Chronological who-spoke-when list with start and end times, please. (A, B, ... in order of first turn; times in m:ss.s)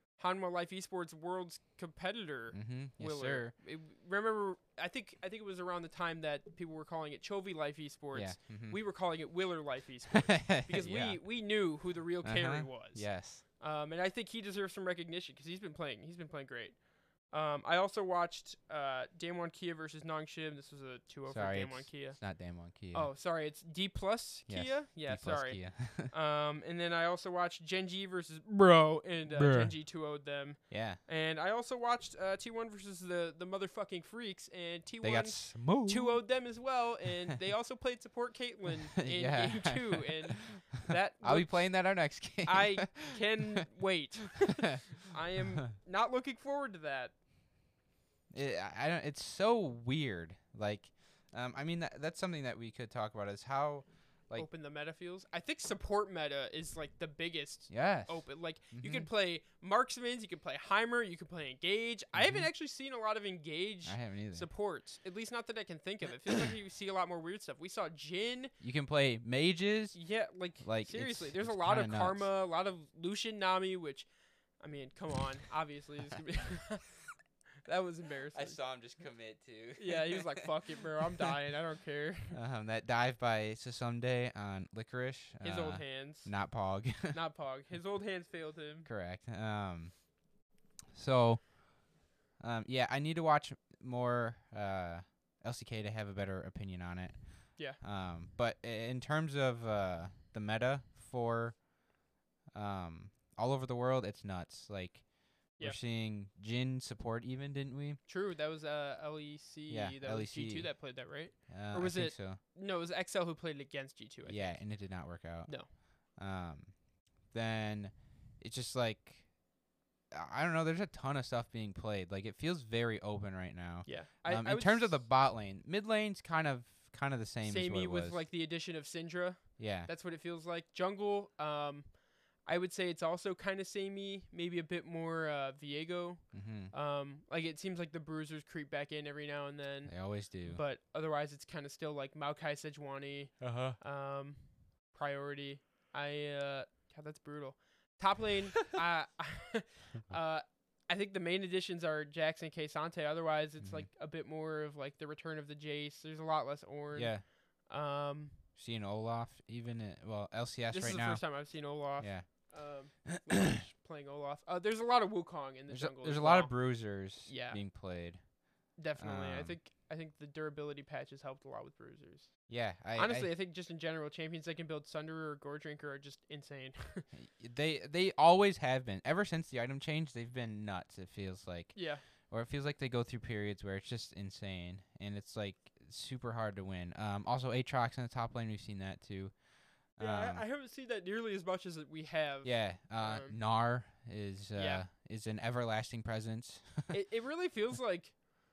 0:00.2-0:22.2 A
0:02.5-0:03.5 B
0:08.1-0:08.8 B
0:10.1-0:11.2 B
0:12.2-0:13.4 B
0:21.3-0:23.1 B
0:22.9-0:47.1 A
0:24.5-0:26.1 B
0:29.3-0:29.8 B
0:30.7-0:31.0 B
0:35.0-0:36.2 B
0:39.0-0:43.6 B
0:48.3-0:54.5 B
0:54.4-1:08.5 A
0:57.7-0:59.1 B
1:02.2-1:02.5 B
1:03.8-1:04.5 B
1:08.6-1:10.0 B
1:09.9-1:14.1 A
1:10.6-1:12.3 B
1:14.6-1:17.0 A
1:17.6-1:18.6 A
1:18.3-1:20.5 B
1:19.8-1:22.4 A
1:22.3-1:27.2 B
1:25.4-1:26.5 A
1:27.1-1:28.9 A
1:28.8-1:30.0 B
1:30.9-1:31.6 B
1:32.4-1:41.7 B
1:42.5-1:48.0 B
1:48.1-1:54.6 A
1:49.7-1:50.8 B
1:51.5-1:52.4 B
1:54.3-1:55.6 B
1:56.2-1:56.7 B
1:57.3-1:59.3 B
2:00.1-2:08.2 B
2:03.9-2:05.0 A
2:07.4-2:38.4 A
2:09.6-2:09.9 B
2:16.3-2:16.7 B
2:19.9-2:20.6 B
2:23.4-2:23.8 B
2:33.6-2:33.9 B
2:36.9-2:37.2 B
2:38.6-2:41.4 B
2:40.7-2:47.6 A
2:42.0-2:42.5 B
2:43.2-2:43.6 B
2:45.7-2:48.3 B
2:48.8-2:57.1 A
2:49.0-2:49.6 B
2:52.5-2:53.3 B
2:57.1-3:09.3 B
3:01.8-3:02.0 A
3:10.0-3:10.4 B
3:10.0-3:13.4 A
3:12.4-3:16.9 B
3:14.6-3:14.8 A
3:16.9-3:18.2 A